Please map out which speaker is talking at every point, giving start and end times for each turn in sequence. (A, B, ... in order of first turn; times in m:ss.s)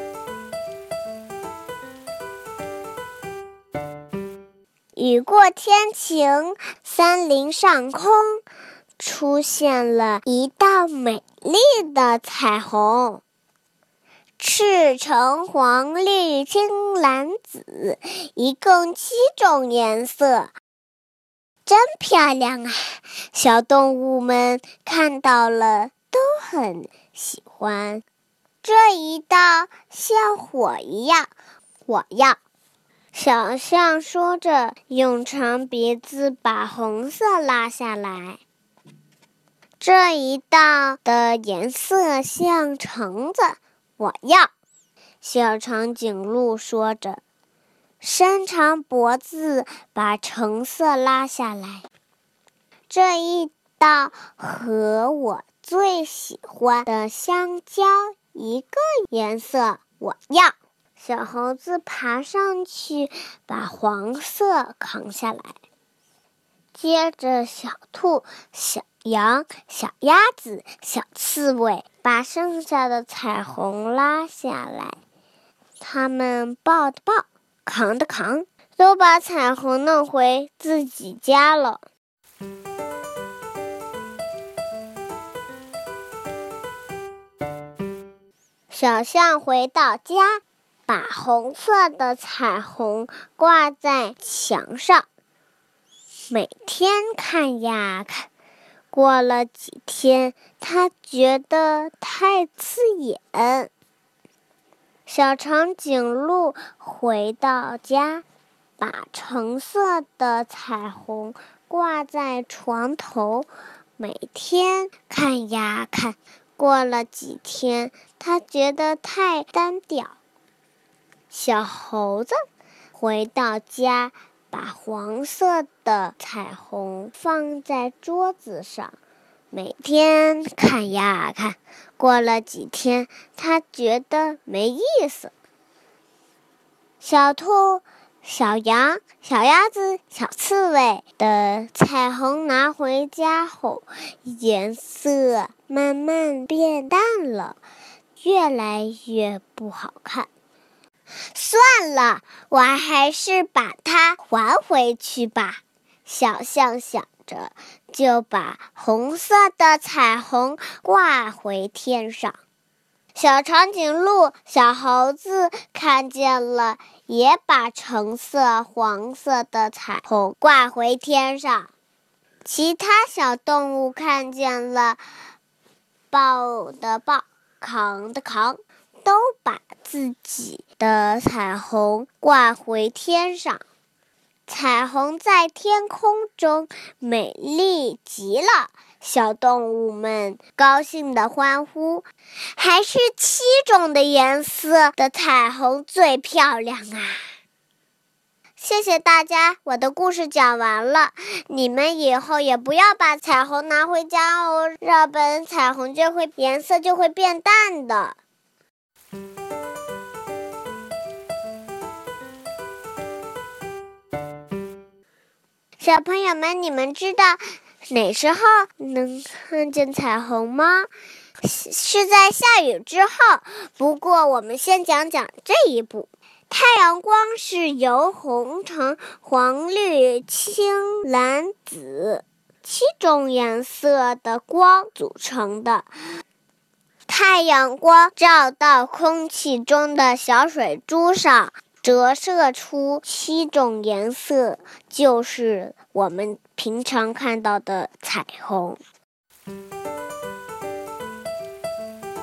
0:05.0-0:08.4 A
0:09.0-0:13.2 A
0:14.4-0:20.5 A
0:21.6-0:28.0 A
0:28.6-0:31.3 A
0:31.9-0:32.4 A
0:33.1-0:38.4 A
0:39.8-0:44.5 A
0:45.2-0:47.2 A
0:48.0-0:51.8 A
0:52.9-1:05.6 A
1:06.7-1:15.0 A
1:15.8-1:21.8 A
1:28.7-1:35.0 A
1:36.3-1:38.3 A
1:38.9-1:43.7 A
1:45.0-1:48.2 A
1:48.8-2:00.2 A
2:01.3-2:02.4 A
2:02.9-2:09.0 A
2:09.5-2:15.3 A
2:17.0-2:27.6 A
2:28.2-2:30.3 A
2:31.3-2:42.4 A
2:43.2-2:51.7 A
2:52.4-2:55.0 A
2:56.1-3:03.6 A
3:04.5-3:17.3 A
3:18.6-3:28.2 A
3:35.8-3:40.9 A
3:41.4-3:55.9 A
3:57.1-4:08.8 A